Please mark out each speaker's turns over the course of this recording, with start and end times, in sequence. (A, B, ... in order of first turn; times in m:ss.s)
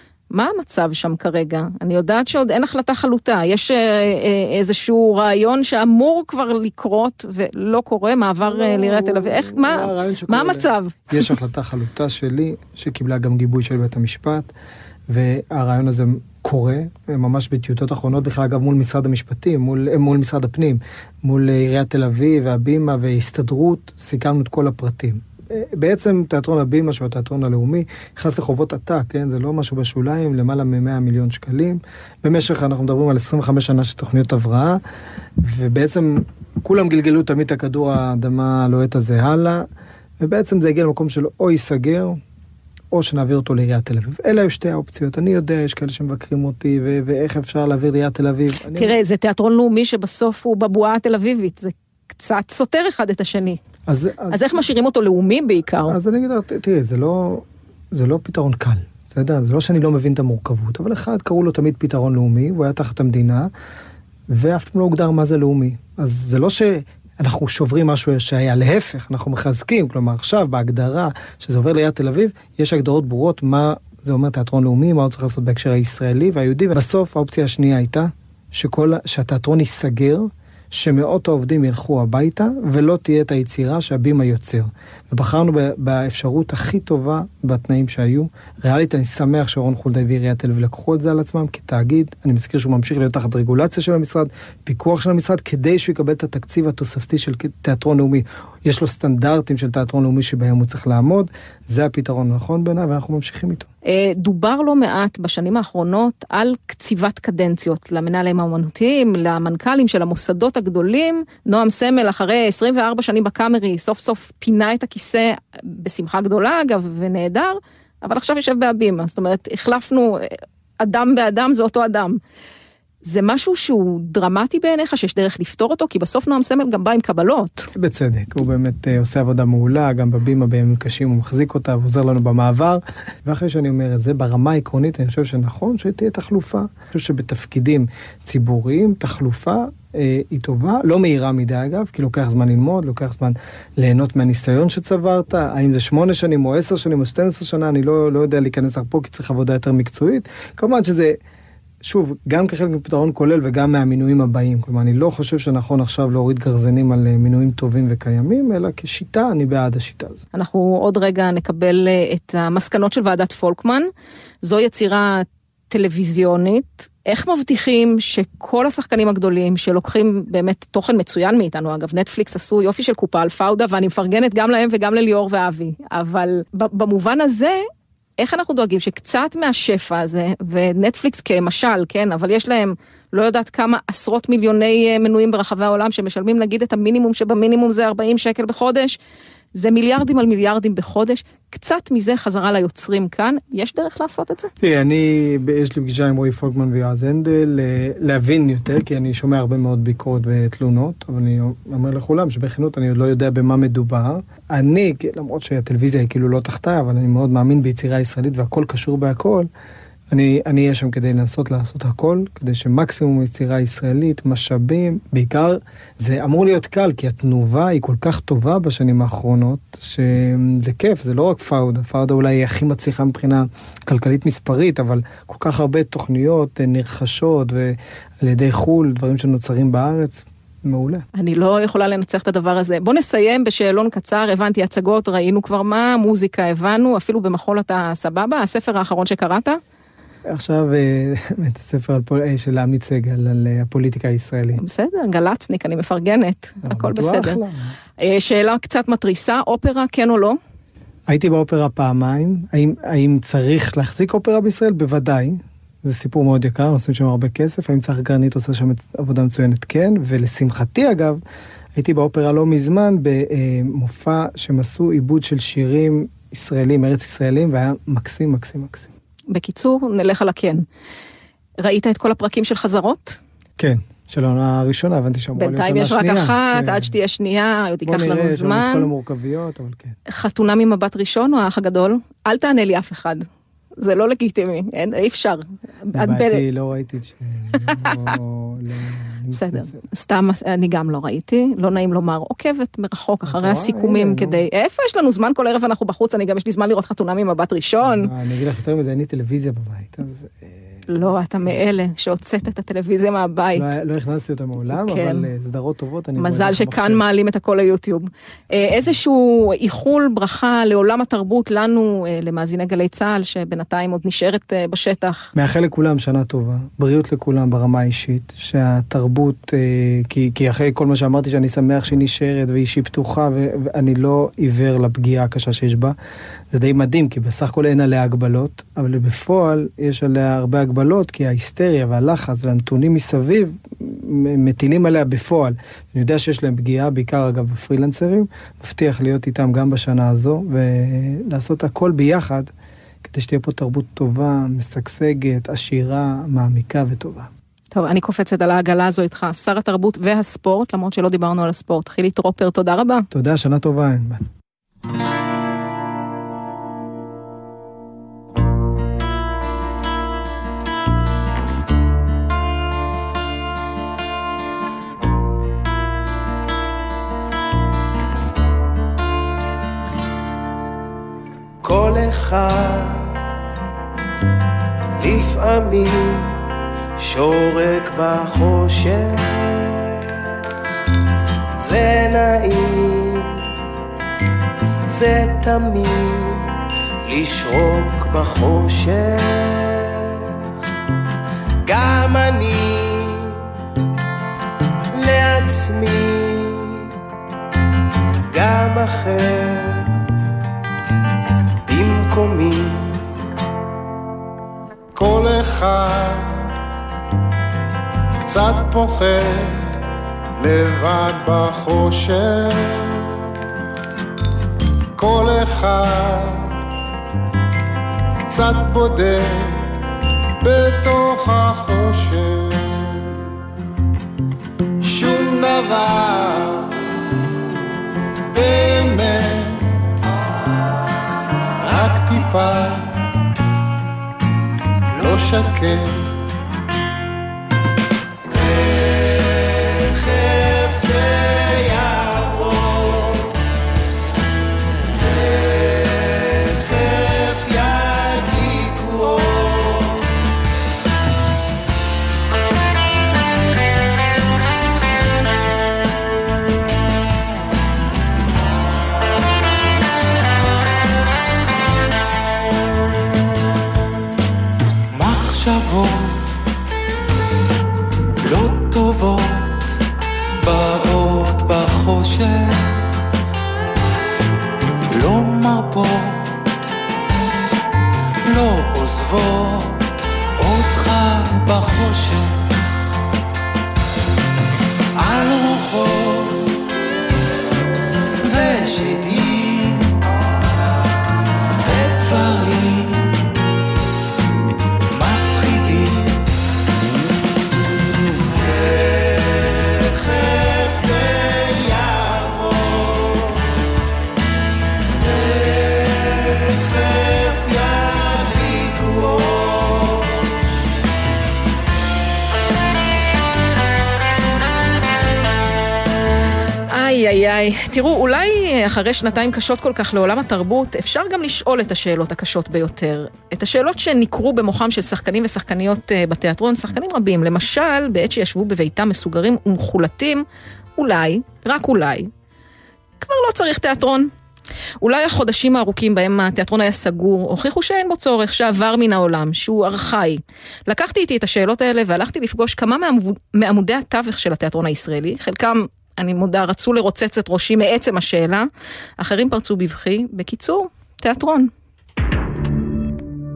0:00.3-0:11.3 A
0:08.4-0:14.5 B
0:15.1-0:34.8 B
0:35.4-0:39.6 B
0:40.2-0:42.2 B
0:42.9-0:49.0 B
0:48.8-0:53.6 A
0:53.9-0:54.4 B
0:54.3-0:56.0 A
0:55.9-1:03.5 B
1:04.3-1:43.7 B
1:43.9-2:00.3 A
2:00.8-2:02.2 A
2:03.0-2:07.6 A
2:07.8-2:31.2 B
2:31.8-2:40.2 B
2:40.4-2:43.9 A
2:44.4-2:57.6 A
2:58.2-3:09.0 A
3:09.6-3:14.5 A
3:14.6-3:29.5 B
3:30.1-3:51.0 B
3:51.2-3:59.6 A
4:00.3-4:04.6 B
4:04.6-4:07.4 A
4:06.6-4:07.7 B
4:08.0-4:10.4 A
4:11.1-4:21.2 B
4:21.8-4:28.9 B
4:29.3-4:30.6 A
4:31.6-4:33.2 A
4:33.6-4:36.9 B
4:35.4-4:38.9 A
4:37.9-4:40.0 B
4:40.1-4:43.3 A
4:43.8-4:46.4 A
4:46.0-4:49.8 B
4:49.4-4:58.1 A
4:53.3-4:54.4 B
4:57.8-5:00.7 B
5:00.9-5:03.7 A
5:03.6-5:07.0 B
5:04.7-5:05.3 A
5:06.2-5:15.3 A
5:15.4-5:25.9 B
5:26.5-5:42.5 B
5:43.0-5:47.3 B
5:47.7-5:53.1 A
5:53.1-5:54.2 B
6:21.7-6:22.5 C
6:25.0-6:26.1 C
6:31.8-6:32.4 C
6:35.0-6:36.1 C
6:38.5-6:39.2 C
6:45.0-6:46.3 D
6:48.3-6:49.6 D
6:50.4-6:52.9 D
6:55.0-6:56.5 D
6:58.2-6:59.6 D
7:00.4-7:02.8 D
7:04.8-7:06.7 D
7:08.3-7:09.7 D
7:11.6-7:13.0 D
7:15.0-7:16.1 D
8:36.7-8:50.2 A
8:50.8-8:52.1 A
8:53.0-8:54.1 A
8:54.8-9:08.5 A
9:09.0-9:11.5 A